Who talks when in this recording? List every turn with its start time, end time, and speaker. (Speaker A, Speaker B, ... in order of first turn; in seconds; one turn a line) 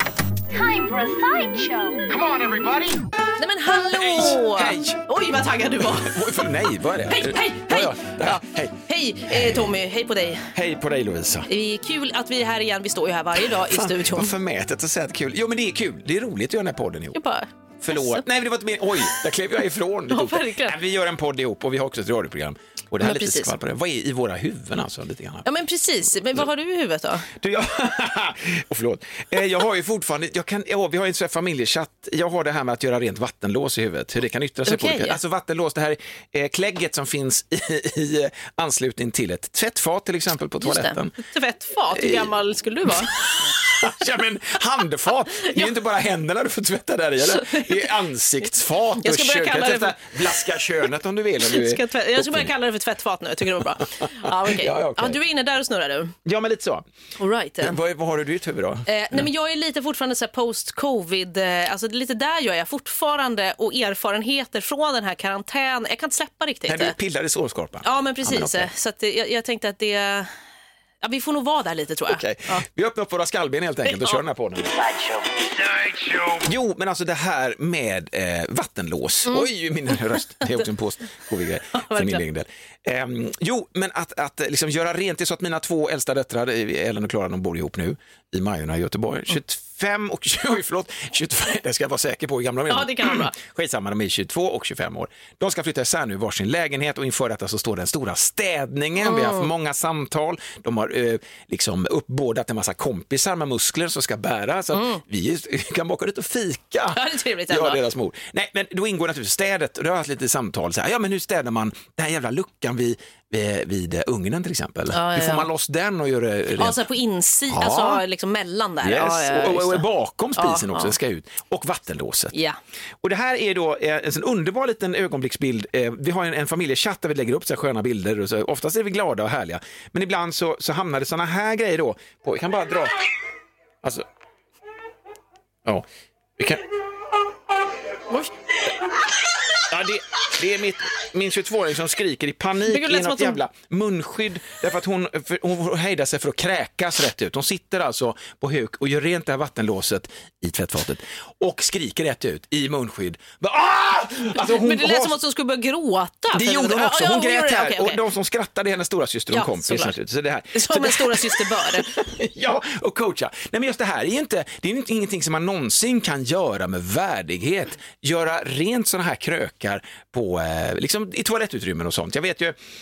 Speaker A: 0.6-1.9
Speaker B: 2.1-3.0
Speaker A: 3.4-6.4
Speaker B: 3.9-5.0
Speaker B: 5.9-8.8
Speaker A: 7.1-10.5
Speaker B: 9.3-9.7
Speaker B: 10.5-11.5
Speaker A: 11.5-14.3
Speaker B: 13.4-17.2
Speaker A: 17.1-18.2
Speaker B: 17.8-25.4
Speaker A: 20.1-20.8
Speaker A: 23.0-23.6
Speaker A: 25.4-27.3
Speaker B: 27.4-41.2
Speaker A: 34.6-35.2
Speaker A: 40.6-43.1
Speaker B: 41.9-42.3
Speaker B: 42.9-52.5
Speaker A: 45.4-45.7
Speaker A: 47.3-47.9
Speaker A: 49.0-50.4
Speaker A: 51.4-56.1
Speaker B: 53.8-55.2
Speaker B: 56.2-56.9
Speaker A: 57.2-57.8
Speaker B: 57.6-58.9
Speaker A: 58.9-66.9
Speaker B: 66.7-68.7
Speaker A: 67.8-70.3
Speaker A: 71.0-72.6
Speaker B: 72.1-116.8
Speaker A: 73.9-74.2
Speaker A: 81.7-82.2
Speaker A: 92.7-93.3
Speaker A: 99.0-99.5
Speaker A: 104.7-105.0
Speaker A: 106.9-107.8
Speaker A: 114.9-115.5
Speaker A: 116.6-120.9
Speaker B: 117.5-118.0
Speaker B: 118.8-122.3
Speaker A: 122.3-122.6
Speaker B: 123.0-133.0
Speaker B: 136.4-136.6
Speaker B: 139.7-155.2
Speaker A: 142.7-143.4
Speaker A: 154.4-158.0
Speaker B: 156.3-172.6
Speaker A: 159.3-159.9
Speaker A: 160.5-161.9